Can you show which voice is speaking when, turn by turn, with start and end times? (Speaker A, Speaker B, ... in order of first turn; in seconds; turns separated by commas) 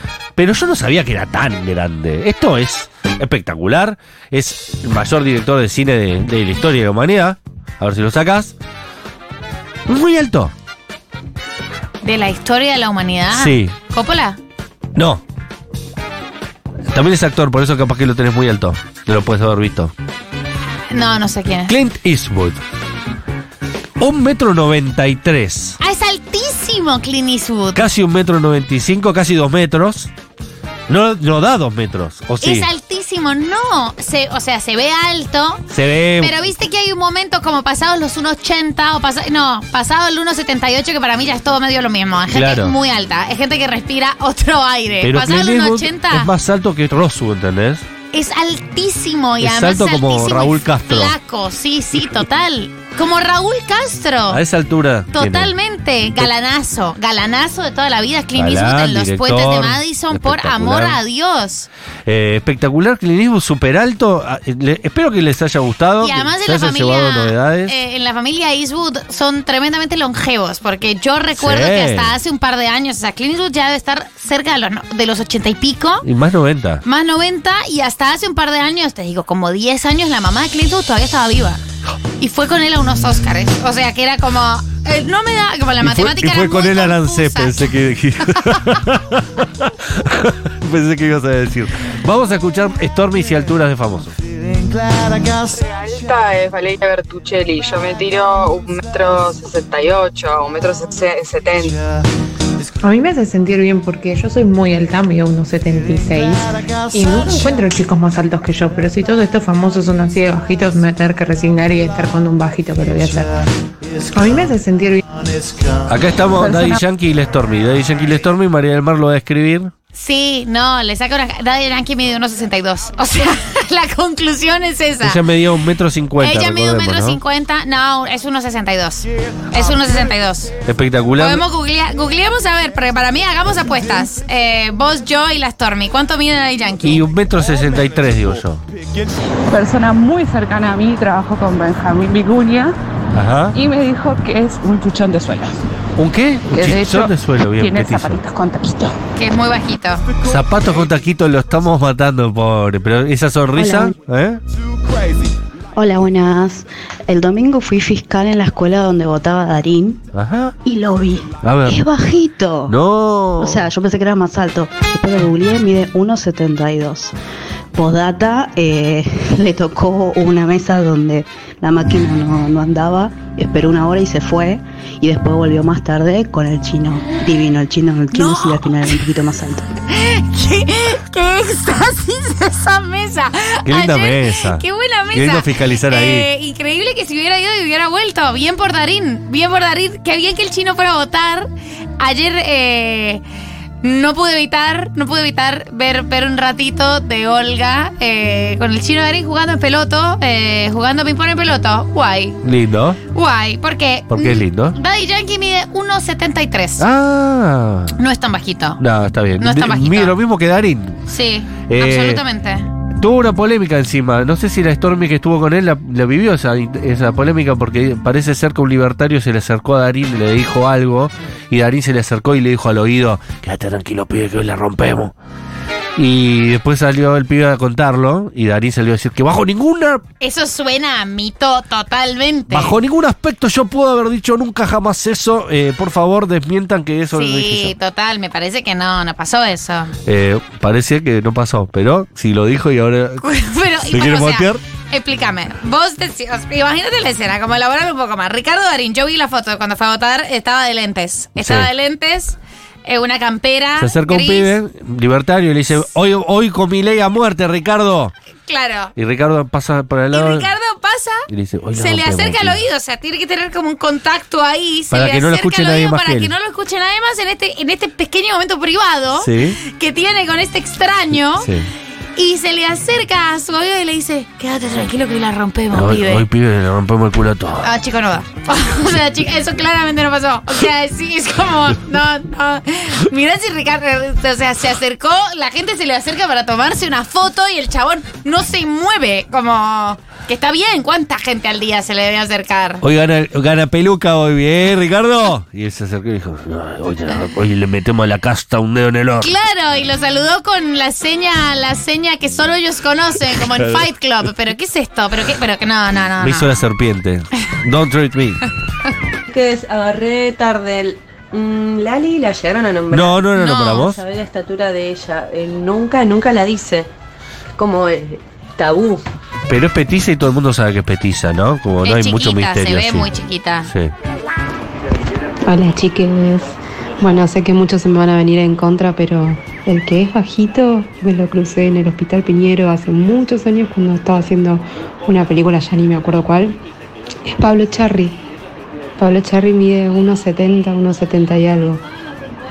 Speaker A: 0.3-8.5, Speaker A: 9.9-10.5, Speaker B: 12.0-14.4, Speaker A: 13.3-13.7, Speaker A: 14.9-15.2, Speaker A: 16.9-19.9, Speaker B: 20.9-21.7, Speaker A: 21.7-22.6, Speaker A: 24.0-25.8, Speaker B: 25.8-27.8, Speaker A: 27.7-30.1, Speaker A: 30.9-32.7, Speaker B: 32.4-35.7, Speaker A: 35.7-36.4, Speaker B: 36.2-46.3, Speaker A: 42.3-42.8, Speaker A: 45.0-47.9, Speaker B: 48.1-54.4, Speaker A: 49.4-51.1, Speaker A: 54.3-55.5, Speaker B: 55.1-61.7, Speaker A: 58.3-61.0, Speaker A: 62.0-67.8, Speaker B: 66.0-76.0, Speaker A: 71.3-72.2, Speaker A: 76.0-76.8, Speaker B: 76.8-81.6, Speaker B: 82.2-87.7, Speaker A: 85.8-94.2, Speaker C: 95.4-101.8, Speaker D: 102.8-113.4, Speaker D: 114.1-115.0, Speaker A: 115.9-119.7, Speaker E: 116.4-116.8, Speaker B: 119.9-125.2, Speaker A: 125.0-127.2, Speaker B: 126.2-130.5, Speaker A: 130.7-131.4, Speaker B: 131.2-137.0, Speaker A: 136.8-138.6, Speaker E: 139.5-142.8, Speaker A: 143.1-143.6, Speaker E: 143.5-145.6, Speaker A: 145.9-148.2, Speaker E: 146.5-148.9, Speaker B: 149.2-150.1, Speaker A: 150.2-154.4, Speaker F: 153.5-153.9, Speaker F: 155.7-160.0, Speaker A: 160.1-160.6, Speaker F: 160.6-162.8, Speaker A: 161.4-161.9, Speaker A: 162.7-163.7, Speaker F: 163.4-167.1, Speaker F: 167.7-179.7, Speaker B: 178.1-178.9, Speaker B: 179.9-193.2, Speaker A: 183.7-186.3, Speaker B: 193.8-202.4, Speaker A: 202.4-203.0, Speaker B: 203.1-206.8, Speaker A: 204.1-204.8, Speaker A: 206.8-208.0, Speaker B: 208.0-208.8, Speaker A: 208.8-211.1, Speaker B: 209.4-210.2, Speaker B: 211.1-212.7, Speaker A: 211.7-212.2, Speaker A: 213.0-225.1, Speaker A: 226.0-230.0, Speaker B: 230.2-232.8, Speaker A: 232.5-237.7, Speaker B: 237.1-239.9, Speaker A: 240.1-243.2, Speaker B: 243.2-254.6, Speaker A: 243.8-244.6, Speaker A: 251.4-251.7, Speaker A: 253.8-258.1, Speaker B: 258.5-258.9, Speaker A: 258.9-260.5, Speaker B: 260.1-271.5, Speaker A: 261.3-262.6, Speaker A: 264.9-266.3, Speaker A: 269.1-269.6, Speaker A: 271.1-271.7, Speaker B: 272.2-276.2, Speaker A: 275.7-277.7, Speaker B: 277.6-292.8, Speaker A: 292.8-299.3, Speaker B: 299.2-306.6, Speaker A: 303.4-303.9, Speaker A: 306.2-308.4, Speaker G: 309.3-316.9, Speaker A: 312.9-314.0, Speaker B: 313.3-313.9, Speaker G: 317.6-319.0, Speaker A: 319.5-323.1, Speaker B: 321.8-323.7, Speaker A: 323.6-323.9, Speaker H: 325.4-336.6, Speaker H: 337.2-338.2, Speaker H: 339.0-341.8